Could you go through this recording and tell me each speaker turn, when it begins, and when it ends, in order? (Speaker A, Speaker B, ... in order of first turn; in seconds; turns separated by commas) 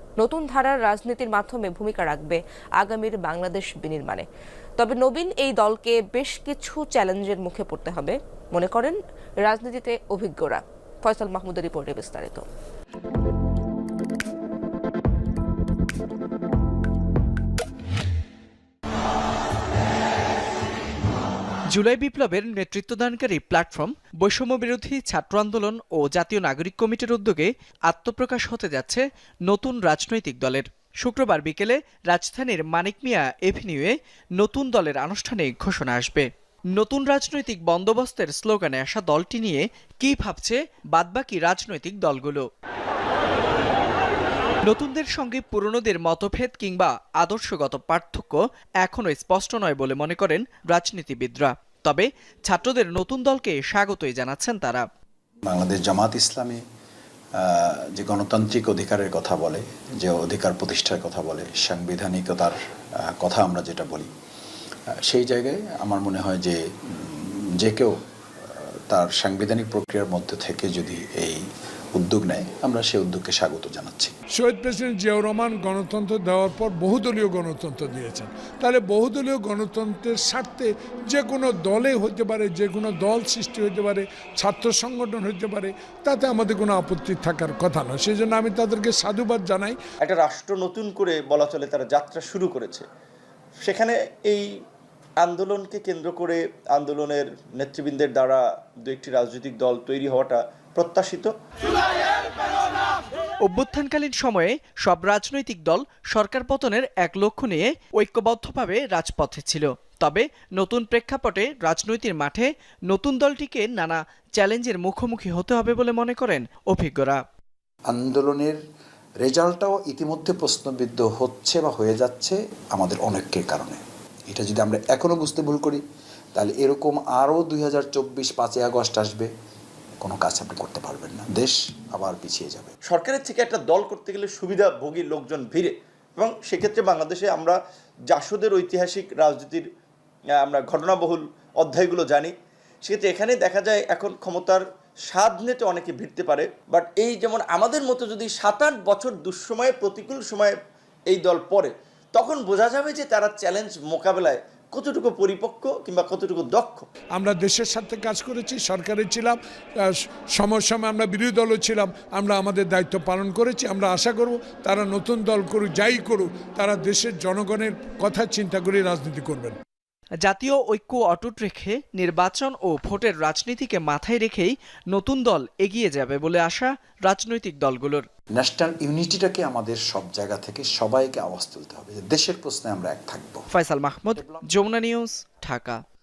Speaker A: 0.2-4.2, Speaker A: 4.8-12.4, Speaker B: 21.7-42.5, Speaker B: 44.7-54.9, Speaker C: 55.5-56.6, Speaker C: 57.4-64.1, Speaker C: 65.0-74.2, Speaker D: 74.3-89.8, Speaker E: 90.0-92.9, Speaker E: 93.6-94.5, Speaker E: 95.2-101.3, Speaker B: 103.4-117.2, Speaker C: 117.9-118.6, Speaker C: 119.2-125.8, Speaker C: 126.3-129.3, Speaker C: 130.0-132.7, Speaker E: 132.9-137.6, Speaker E: 138.1-139.7, Speaker E: 140.4-142.3, Speaker E: 142.9-150.6, Speaker E: 151.1-156.9, Speaker D: 157.2-169.6, Speaker B: 170.2-178.1, Speaker C: 178.4-183.5, Speaker B: 183.5-185.8, Speaker C: 184.1-184.7